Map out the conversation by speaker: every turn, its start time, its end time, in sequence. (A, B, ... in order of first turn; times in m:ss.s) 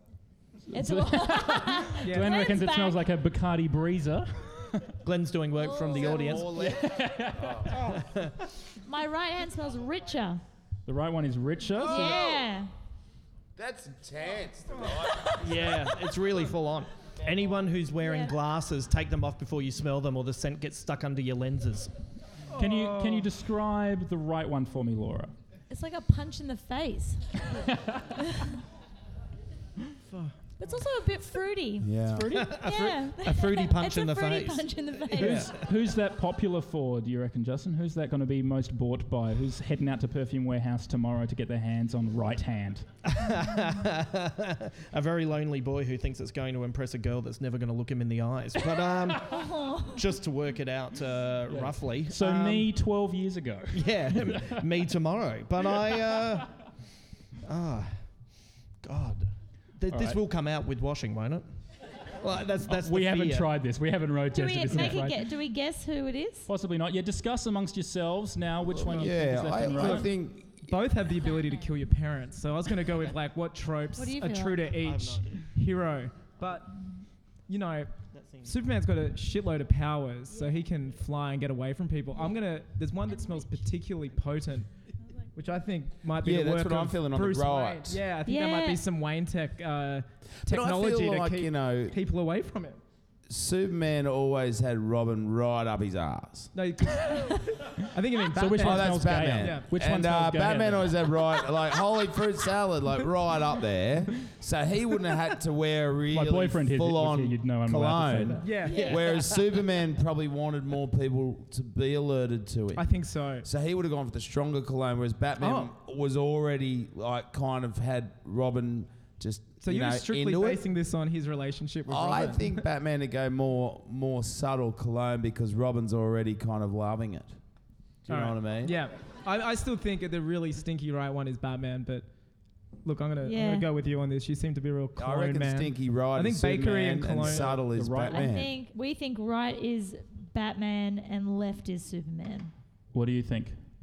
0:00.7-0:04.9 A
0:00.7-0:03.0 B
0:02.0-0:02.3 C
0:05.0-0:06.6 D
0:05.6-0:06.5 B
0:05.9-0:07.8 E
0:06.6-0:07.7 A
0:07.7-0:08.4 D
0:08.8-0:10.4 B
0:10.8-0:12.2 A
0:11.8-0:12.7 B
0:11.9-0:12.2 D
0:13.6-0:15.6 E
0:15.4-0:21.9 D
0:18.0-0:18.3 B
0:22.5-0:23.3 C
0:22.6-0:25.3 A
0:25.7-0:27.4 B
0:27.6-0:28.0 A
0:28.2-0:28.6 B
0:30.6-0:32.0 B
0:31.8-0:32.5 E
0:32.0-0:32.6 A
0:32.3-0:35.6 D
0:32.6-0:35.5 B
0:35.2-0:42.8 A
0:43.0-0:52.7 D
0:49.2-0:50.0 B
0:51.5-0:54.6 A
0:53.7-0:56.5 D
0:57.4-0:58.0 D
0:58.8-1:01.5 D
0:59.9-1:00.2 A
1:02.2-1:03.5 D
1:02.7-1:05.3 A
1:04.3-1:06.5 B
1:06.5-1:10.1 A
1:08.7-1:10.7 E
1:10.6-1:16.7 C
1:11.2-1:11.7 B
1:14.0-1:14.7 B
1:14.7-1:15.4 D
1:17.5-1:24.7 C
1:18.1-1:18.5 D
1:20.3-1:20.6 B
1:23.1-1:23.6 B
1:25.3-1:32.8 C
1:26.2-1:28.0 E
1:28.2-1:28.8 B
1:30.4-1:32.0 E
1:33.3-1:36.5 E
1:36.5-1:39.7 C
1:38.3-1:41.0 A
1:38.5-1:52.9 E
1:46.1-1:48.5 A
1:48.4-1:48.9 C
1:48.6-1:49.3 B
1:52.7-1:53.4 C
1:53.4-2:00.6 E
1:55.4-1:55.7 C
1:59.6-2:02.6 C
2:01.9-2:07.4 E
2:08.0-2:08.8 E
2:08.1-2:12.1 C
2:12.8-2:17.6 C
2:13.2-2:13.7 B
2:15.0-2:18.5 E
2:17.6-2:18.3 A
2:18.0-2:22.5 B
2:22.9-2:23.6 A